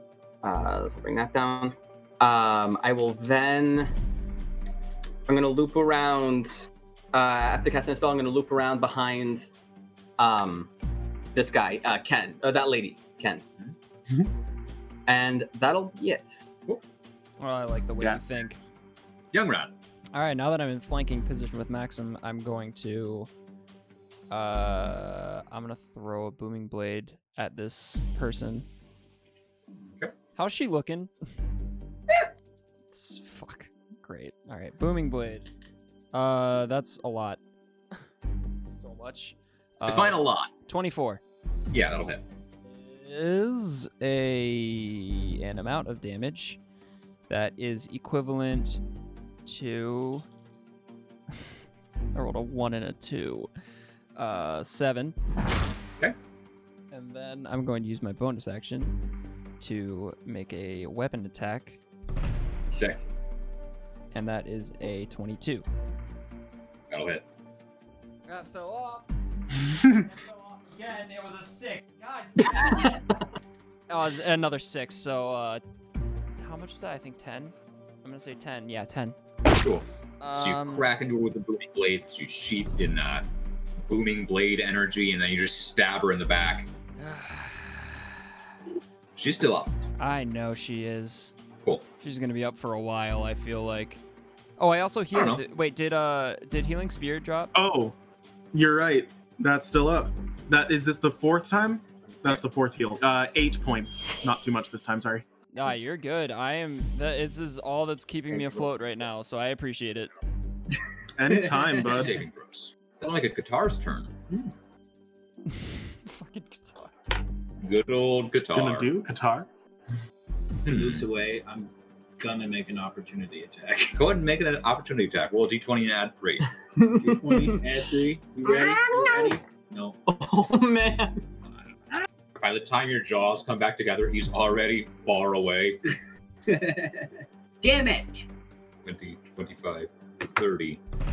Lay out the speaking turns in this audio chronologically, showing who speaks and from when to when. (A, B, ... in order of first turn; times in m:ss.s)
0:00.4-0:03.9 A
0:05.3-0:09.5 A
0:10.2-0:10.7 A
0:11.3-0:13.4 A
0:15.1-0:16.4 A
0:17.4-0:18.6 B
0:19.3-0:19.7 C
0:20.1-0:23.3 B
0:24.3-0:28.6 B
0:30.4-0:31.1 B
0:32.9-0:35.5 B
0:36.1-0:37.4 B
0:38.7-0:41.2 B
0:39.9-0:40.5 C
0:41.7-0:42.2 C
0:42.7-0:46.6 B
0:47.3-0:48.8 B
0:49.4-0:50.2 B
0:52.1-0:53.5 B
0:54.2-0:55.2 B
0:56.9-0:59.0 B
0:59.6-1:01.8 B
1:02.7-1:03.0 C
1:04.1-1:05.6 B
1:06.9-1:07.2 C
1:08.3-1:09.1 B
1:09.7-1:13.0 B
1:13.9-1:15.6 B
1:16.4-1:19.2 B
1:19.6-1:23.3 C
1:20.2-1:20.9 B
1:23.8-1:26.7 C
1:27.0-1:28.2 B
1:29.2-1:29.8 C
1:30.0-1:31.3 B
1:32.0-1:34.0 B
1:34.6-1:37.5 B
1:35.1-1:35.4 C
1:37.5-1:38.0 D
1:38.5-1:45.2 D
1:45.5-1:50.1 B
1:51.2-1:52.2 D
1:51.8-1:54.2 C
1:55.5-1:56.9 B
1:57.6-1:58.9 C
1:58.5-1:59.5 D
2:00.6-2:04.0 E
2:00.6-2:01.1 C
2:03.9-2:06.5 C
2:06.8-2:07.5 A
2:06.9-2:10.0 E
2:08.4-2:09.0 A
2:10.0-2:11.2 A
2:12.4-2:15.8 C
2:16.4-2:18.2 E
2:18.8-2:20.8 C